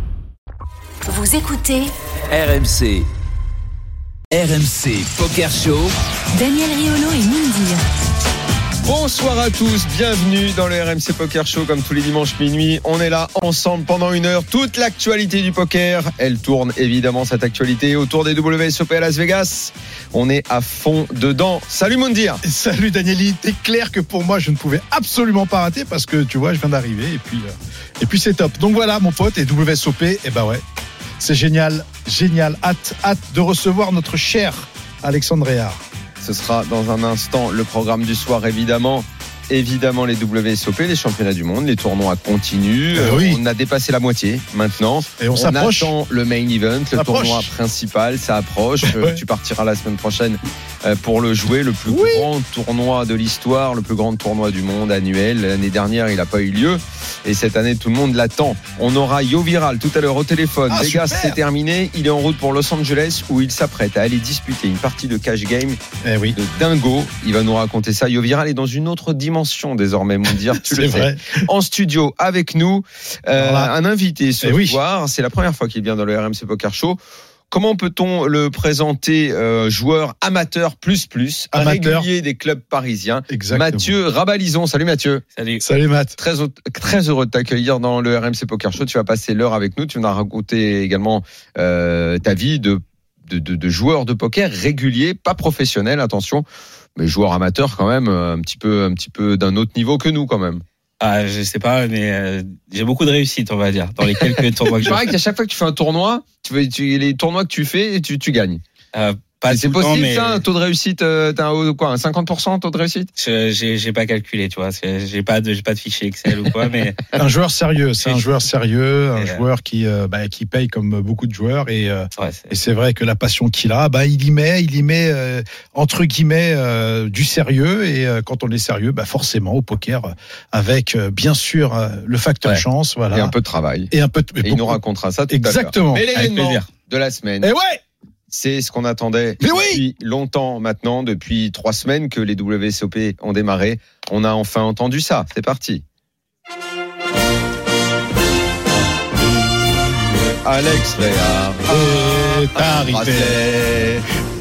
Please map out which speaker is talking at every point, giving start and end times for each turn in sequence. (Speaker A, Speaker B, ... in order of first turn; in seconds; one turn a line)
Speaker A: 1.1-1.9
Speaker B: 2.3-3.1
Speaker B: 4.3-5.9
Speaker A: 6.3-7.8
Speaker C: 8.8-22.4
Speaker D: 22.4-30.6
Speaker D: 31.2-35.8
Speaker C: 36.2-65.8
Speaker D: 42.9-43.4
Speaker D: 45.2-45.9
Speaker D: 46.9-47.5
Speaker D: 48.8-49.2
Speaker D: 51.9-52.3
Speaker D: 60.7-61.4
Speaker D: 66.0-66.4
Speaker C: 66.3-77.0
Speaker D: 70.5-71.4
Speaker D: 73.3-73.7
Speaker D: 74.4-74.8
Speaker C: 77.5-85.2
Speaker D: 81.5-82.1
Speaker D: 83.3-83.9
Speaker E: 85.3-85.6
Speaker D: 85.6-86.2
Speaker C: 86.2-96.4
Speaker C: 97.0-100.6
Speaker E: 101.0-105.0
Speaker C: 104.8-108.6
Speaker E: 108.9-110.4
Speaker C: 109.5-113.1
Speaker E: 113.2-117.0
Speaker D: 117.2-133.3
Speaker E: 119.2-119.4
Speaker E: 122.2-122.5
Speaker C: 133.1-137.5
Speaker D: 133.9-136.3
Speaker E: 136.1-136.7
Speaker D: 137.4-137.8
Speaker C: 138.3-145.8
Speaker D: 139.4-139.8
Speaker C: 150.4-154.0
Speaker D: 151.7-153.4